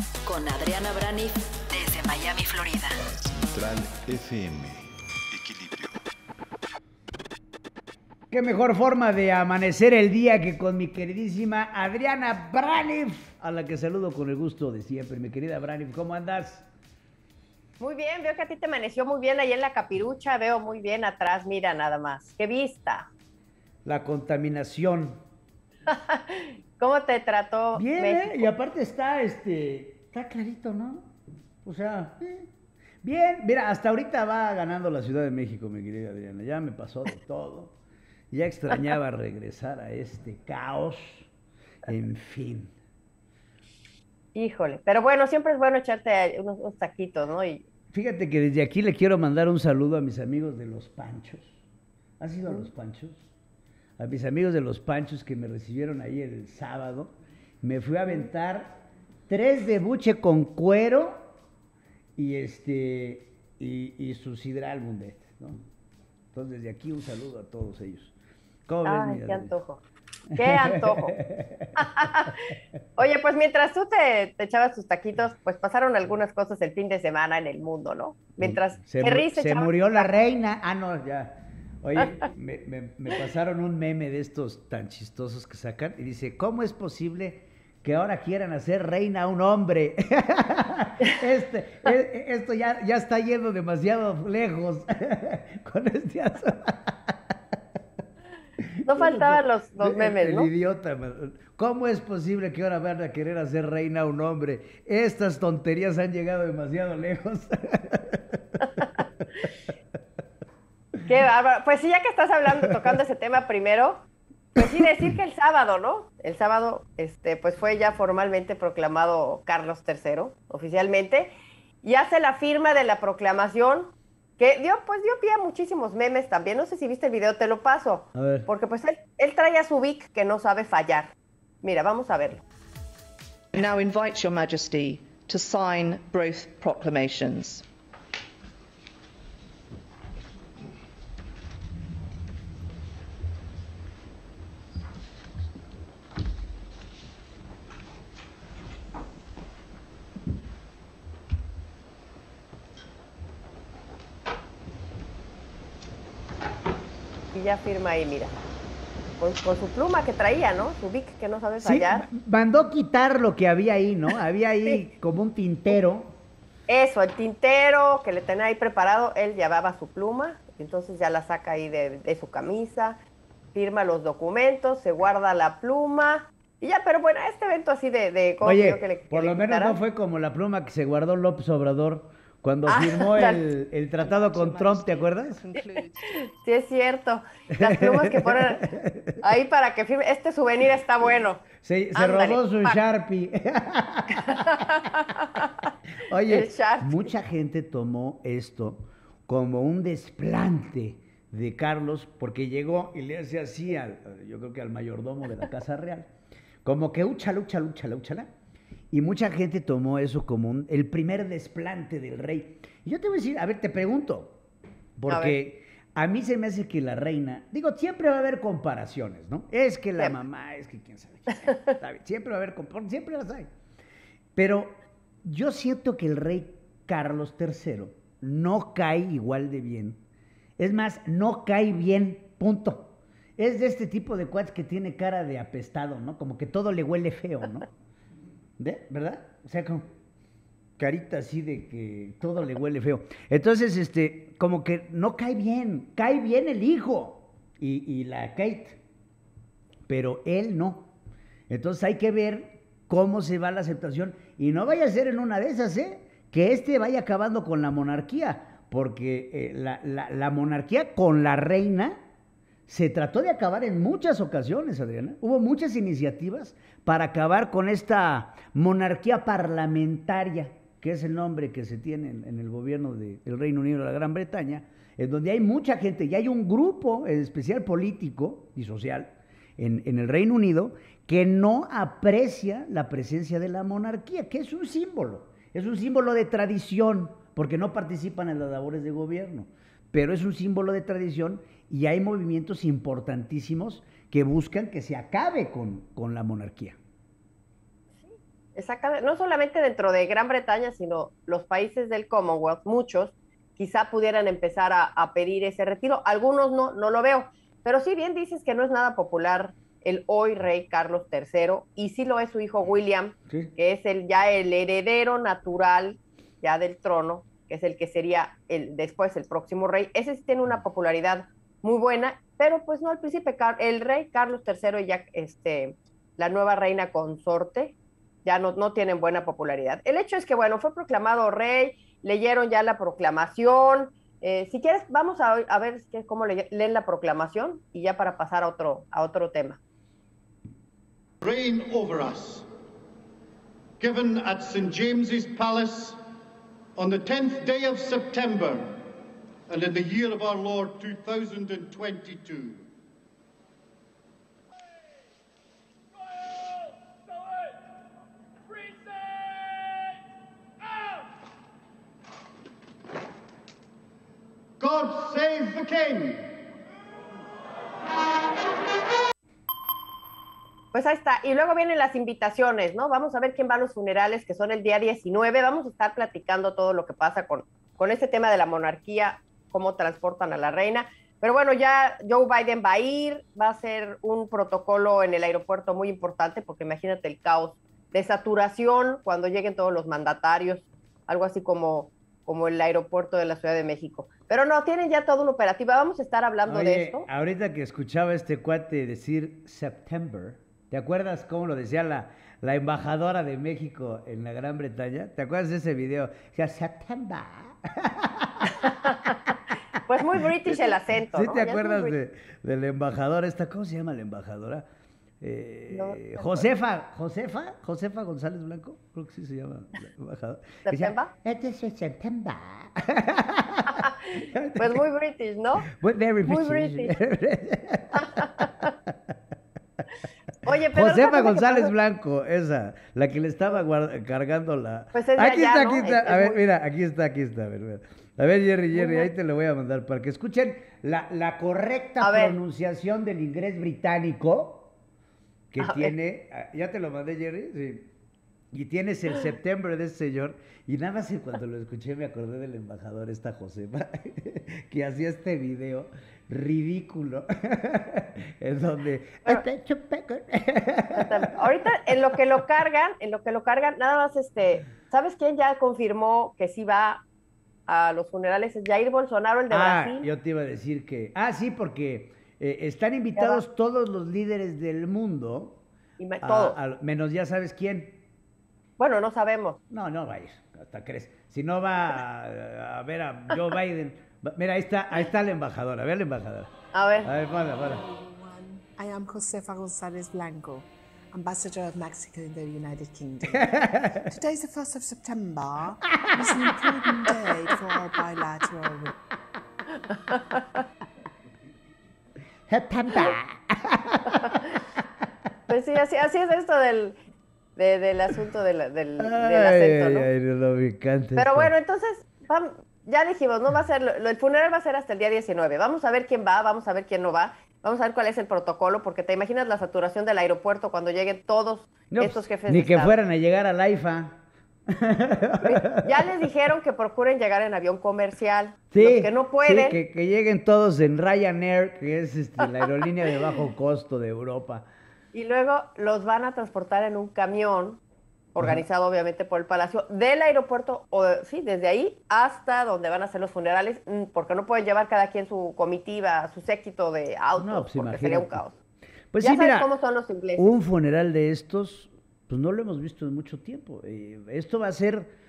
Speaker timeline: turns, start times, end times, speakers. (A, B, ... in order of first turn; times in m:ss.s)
0:00.2-0:03.0 A
0:03.1-0:06.0 B
0:08.3-0:16.7 C
0:17.8-0:23.1 D
0:23.8-0:25.2 C
0:25.9-0:28.5 D
0:27.8-0:31.1 C
0:31.6-0:32.5 C
0:33.0-0:37.8 C
0:38.3-0:41.3 C
0:41.8-0:42.7 C
0:44.3-0:47.7 D
0:47.9-0:51.6 C
0:52.2-0:53.2 C
0:54.0-1:01.2 C
1:02.2-1:05.6 C
1:06.3-1:08.1 C
1:08.7-1:09.5 C
1:08.8-1:11.2 D
1:10.3-1:11.7 C
1:11.8-1:20.1 D
1:18.4-1:37.1 C
1:38.6-1:48.4 C
1:38.9-1:40.5 D
1:51.0-1:54.0 D
1:54.6-2:12.4 D
2:08.2-2:08.5 C
2:13.5-2:17.7 E
2:37.3-2:38.3 D
2:39.2-2:42.1 D
2:41.6-2:46.1 C
2:46.7-2:53.0 D
2:53.5-2:59.8 D
2:58.4-3:05.4 C
3:02.7-3:03.4 D
3:04.0-3:06.3 E
3:05.5-3:08.7 D
3:07.5-3:09.2 C
3:09.2-3:12.8 D
3:11.6-3:14.5 C
3:14.2-3:15.7 D
3:16.1-3:26.1 C
3:16.2-3:17.1 D
3:26.6-3:28.3 C
3:28.9-3:34.4 C
3:35.0-3:43.5 C
3:35.1-3:35.4 D
3:44.4-3:44.7 C
3:45.2-3:50.0 C
3:50.6-3:57.7 C
3:58.6-3:59.8 C
4:00.8-4:08.8 C
4:09.9-4:10.9 C
4:11.5-4:22.0 C
4:22.7-4:56.8 C
4:58.0-5:39.6 D
5:41.2-5:42.4 F
5:43.8-5:46.0 F
5:46.8-5:48.7 F
5:49.5-5:52.6 F
6:04.6-6:06.3 F
6:10.7-6:37.1 D
6:36.4-6:48.6 C
6:48.5-6:52.0 D
6:51.1-6:54.6 C
6:55.2-7:04.8 C
6:55.7-6:56.4 D
7:00.6-7:01.1 D
7:03.7-7:05.7 D
7:05.7-7:08.4 C
7:06.2-7:07.0 D
7:07.9-7:08.7 D
7:10.4-7:11.7 D
7:10.7-7:24.7 C
7:14.9-7:16.4 D
7:18.7-7:19.1 D
7:22.0-7:22.4 D
7:25.5-7:27.9 C
7:25.6-7:25.9 D
7:28.5-7:41.4 C
7:41.0-7:47.0 D
7:47.7-7:50.1 D
7:49.5-7:55.6 C
7:53.1-7:53.4 D
7:56.0-7:56.6 D
7:56.2-7:58.0 C
7:58.8-7:59.6 D
7:59.7-8:06.5 C
8:06.7-8:07.1 D
8:07.0-8:07.8 C
8:07.6-8:18.9 G
8:13.4-8:14.1 C
8:16.2-8:16.5 C
8:19.8-8:20.6 D
8:22.5-8:24.4 C
8:24.1-8:24.4 D
8:25.5-8:27.0 D
8:27.6-8:30.1 D
8:29.0-8:31.5 C
8:31.2-8:43.0 D
8:41.9-8:46.0 C
8:45.4-8:49.8 D
8:48.7-8:54.6 C
8:55.1-8:57.8 D
8:58.4-9:08.6 D
9:07.4-9:08.4 C
9:09.1-9:09.7 C
9:09.2-9:10.5 D
9:10.4-9:15.1 C